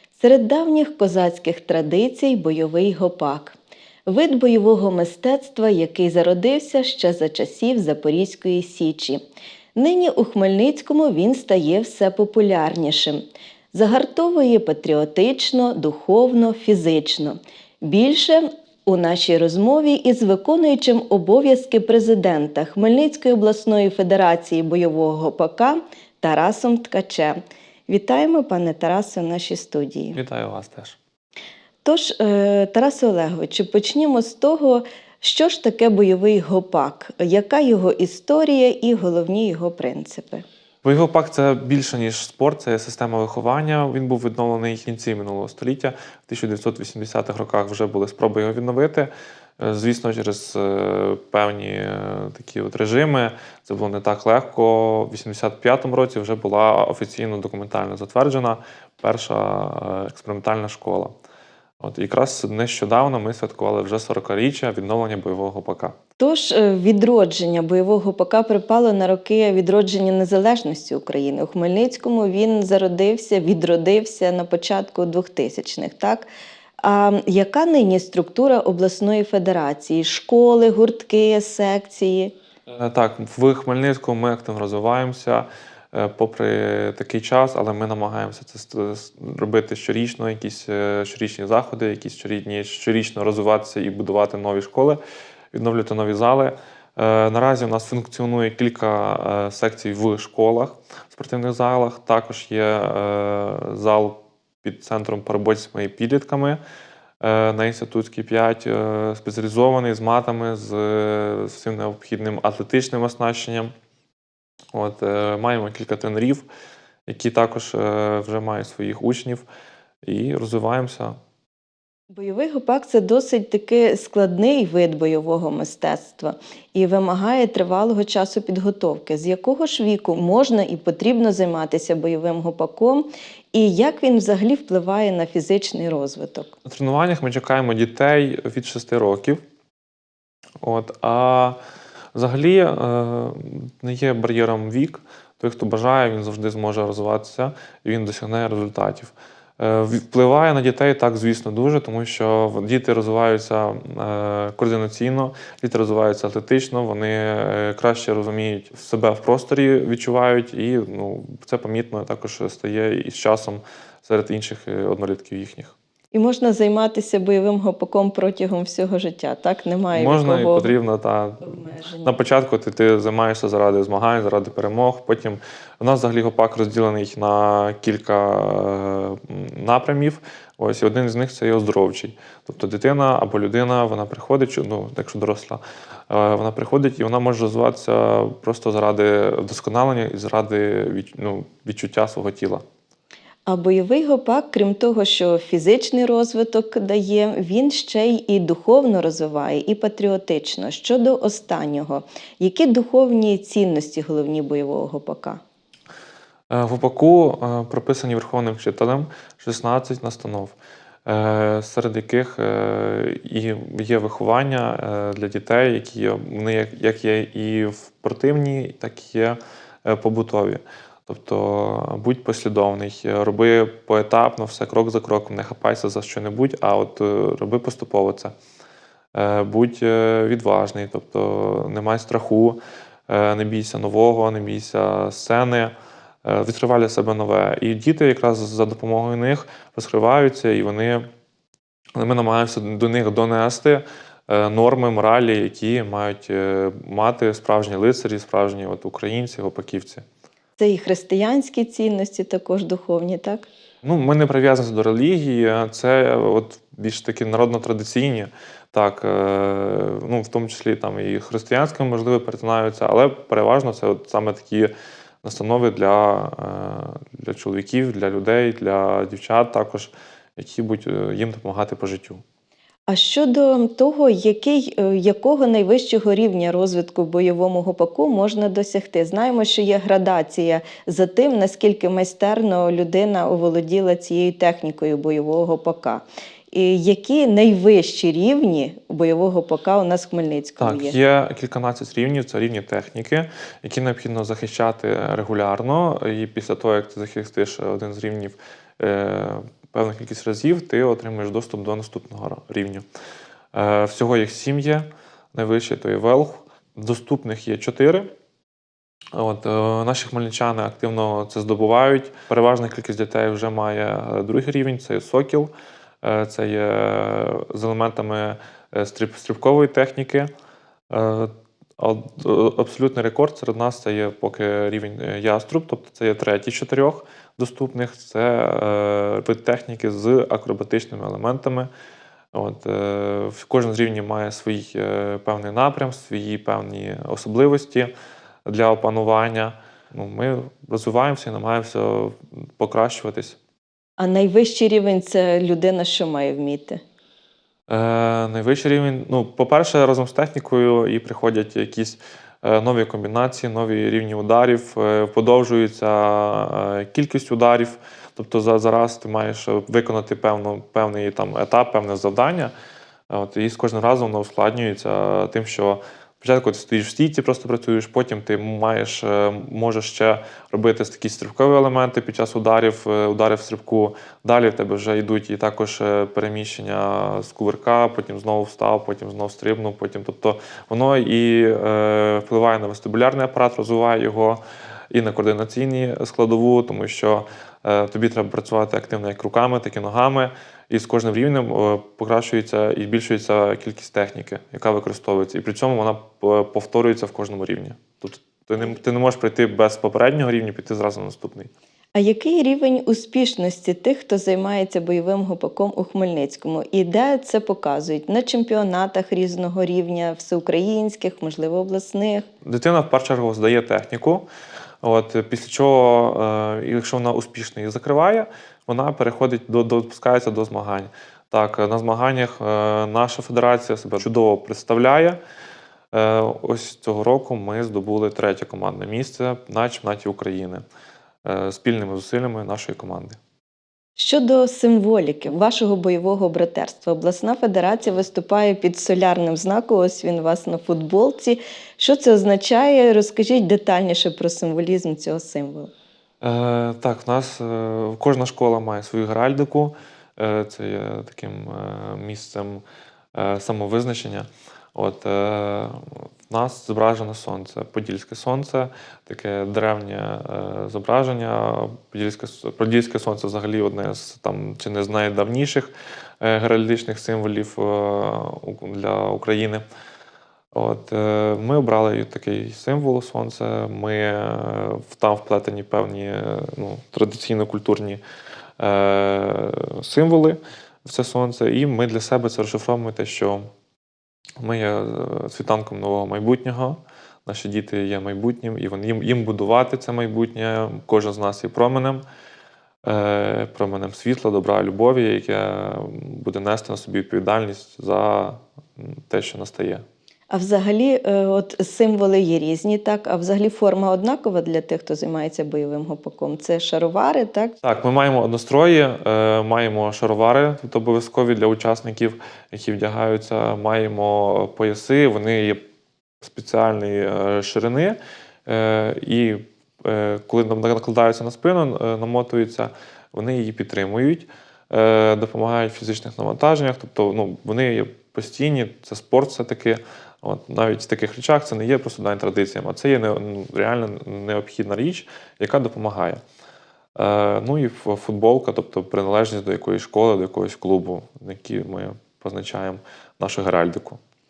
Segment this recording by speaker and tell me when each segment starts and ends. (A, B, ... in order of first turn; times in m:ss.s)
0:00.2-0:09.2 A
0:09.8-0:27.4 A
0:27.9-0:30.2 A
0:30.2-0:31.0 B
0:31.8-0:40.4 A
0:40.8-1:01.1 B
1:01.8-1:06.0 B
1:06.2-1:16.3 A
1:16.8-1:22.3 A
1:22.7-1:35.0 B
1:35.5-1:46.6 B
1:47.2-1:53.7 B
1:54.7-1:56.5 B
1:57.1-1:59.4 B
2:00.0-2:01.2 B
2:02.1-2:16.5 A
2:16.7-2:19.4 B
2:20.6-2:21.6 B
2:22.2-2:45.8 B
2:46.1-2:50.7 A
2:49.9-3:12.6 B
2:51.4-2:52.2 A
3:13.5-3:25.4 A
3:26.5-3:30.6 B
3:31.1-3:48.4 B
3:49.1-3:55.7 B
3:56.2-4:01.0 B
4:02.0-4:10.0 B
4:10.6-4:13.5 A
4:13.8-4:24.7 B
4:25.2-4:32.2 B
4:32.9-4:51.0 A
4:50.6-5:02.8 B
5:03.5-5:08.1 B
5:09.1-5:20.3 B
5:20.9-5:31.7 B
5:32.3-5:37.9 B
5:38.5-5:43.4 B
5:44.0-5:46.8 A
5:47.7-6:02.5 B
6:03.1-6:41.5 B
6:42.0-6:52.3 A
6:52.4-6:54.3 B
6:54.8-7:05.2 B
7:05.9-7:10.6 B
7:11.2-7:13.2 B
7:14.0-7:25.7 A
7:26.2-7:32.6 B
7:33.1-7:49.6 B
7:50.5-7:58.0 B
7:58.6-8:03.5 B
8:04.4-8:12.0 B
8:12.8-8:19.8 B
8:20.3-8:27.6 A
8:27.6-8:35.6 B
8:36.2-8:56.2 B
8:57.0-9:04.0 B